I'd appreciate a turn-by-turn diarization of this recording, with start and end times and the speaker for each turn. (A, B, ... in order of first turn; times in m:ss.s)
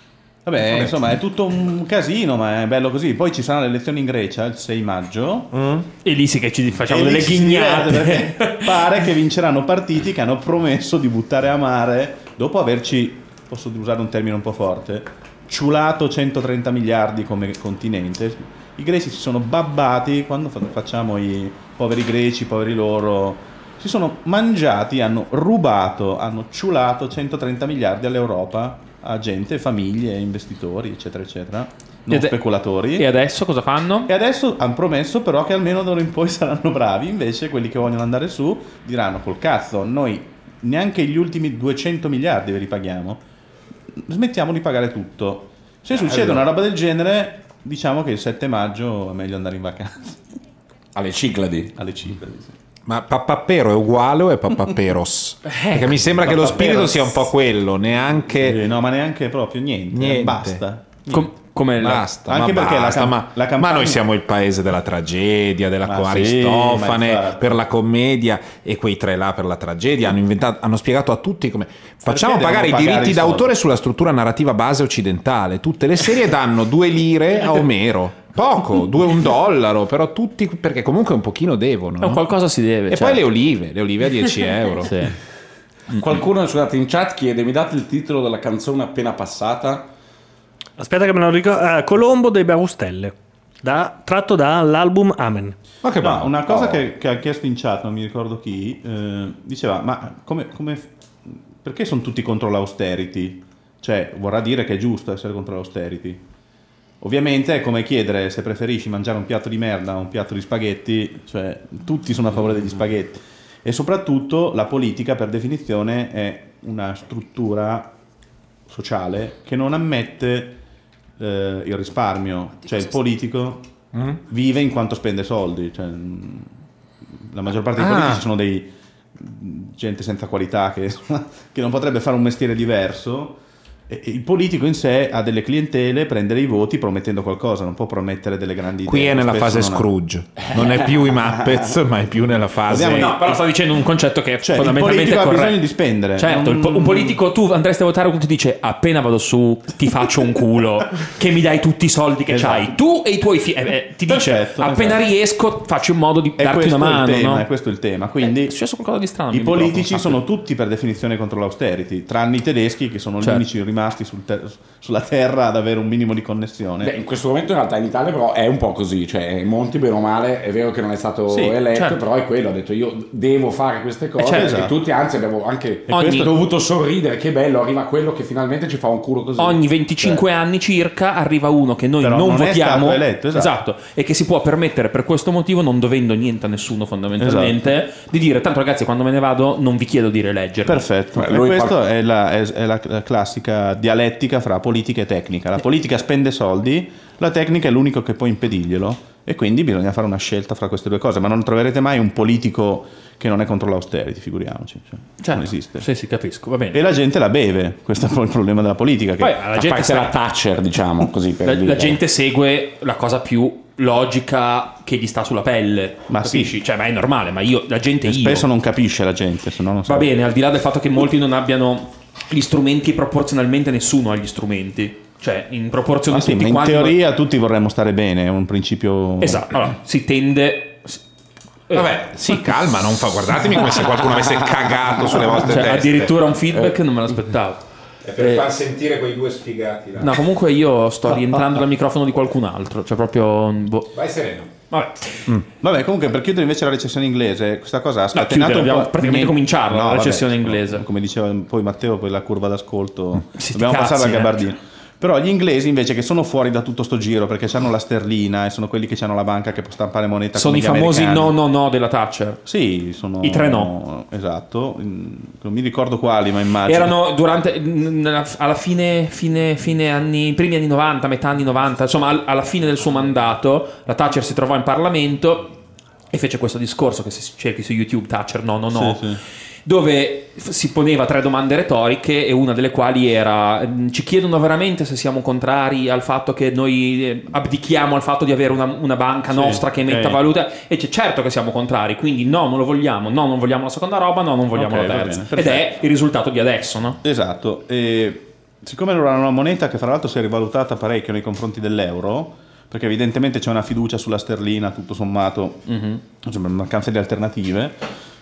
0:00.4-0:05.6 A
0:00.7-0:01.0 B
0:06.0-0:09.0 C
0:06.8-0:33.1 A
0:32.1-0:34.1 C
0:34.1-0:43.2 A
0:44.0-0:50.2 A
0:46.1-0:46.4 D
0:50.9-0:51.7 D
0:51.8-0:52.6 A
0:52.8-0:58.6 B
0:56.2-0:57.3 A
0:58.4-1:00.9 A
0:59.9-1:01.2 B
1:01.1-1:02.0 C
1:01.8-1:22.2 B
1:01.8-1:04.0 A
1:05.8-1:07.6 A
1:12.0-1:13.6 A
1:22.0-1:23.2 C
1:22.9-1:25.0 B
1:24.8-1:25.1 C
1:25.9-1:29.8 D
1:30.8-1:35.5 E
1:35.8-1:36.4 B
1:36.0-1:46.2 A
1:47.0-1:57.9 A
1:58.7-2:00.6 A
2:01.2-2:03.7 A
2:04.2-2:06.5 A
2:07.2-2:19.9 A
2:07.8-2:08.2 B
2:18.8-2:23.2 B
2:21.2-2:21.7 A
2:22.7-2:23.4 A
2:22.9-2:25.6 C
2:24.4-2:27.2 A
2:26.2-2:37.4 C
2:32.3-2:32.7 A
2:34.1-2:35.0 A
2:36.4-2:38.5 A
2:38.2-2:40.2 C
2:39.3-2:46.9 A
2:43.2-2:43.4 C
2:46.8-3:00.2 D
2:51.3-2:51.6 A
2:51.7-2:52.0 C
2:54.2-2:54.5 C
2:54.3-2:54.7 A
2:55.9-2:56.3 C
2:56.0-2:56.3 A
2:59.4-3:10.9 C
3:02.0-3:03.5 A
3:07.2-3:07.6 A
3:10.6-3:25.8 A
3:11.1-3:11.8 D
3:25.2-3:26.8 C
3:26.7-3:29.4 A
3:29.2-3:30.1 C
3:29.5-3:32.0 D
3:31.4-3:38.5 C
3:36.1-3:36.5 A
3:38.0-3:40.1 A
3:39.8-3:47.0 C
3:46.1-3:49.7 A
3:49.2-3:51.0 C
3:51.7-3:56.1 B
3:55.2-3:57.6 C
3:58.0-4:00.2 B
3:58.2-3:58.5 C
4:00.0-4:03.9 C
4:03.9-4:04.5 B
4:04.7-4:05.3 C
4:05.6-4:21.3 A
4:08.1-4:10.8 C
4:13.3-4:14.4 C
4:20.3-4:22.4 C
4:22.4-4:26.9 A
4:23.2-4:23.7 C
4:26.6-4:35.6 C
4:36.1-4:57.0 C
4:38.7-4:39.2 A
4:49.3-4:50.2 A
4:54.5-4:55.7 A
4:57.0-5:05.7 A
5:05.7-5:06.0 C
5:06.2-5:07.8 A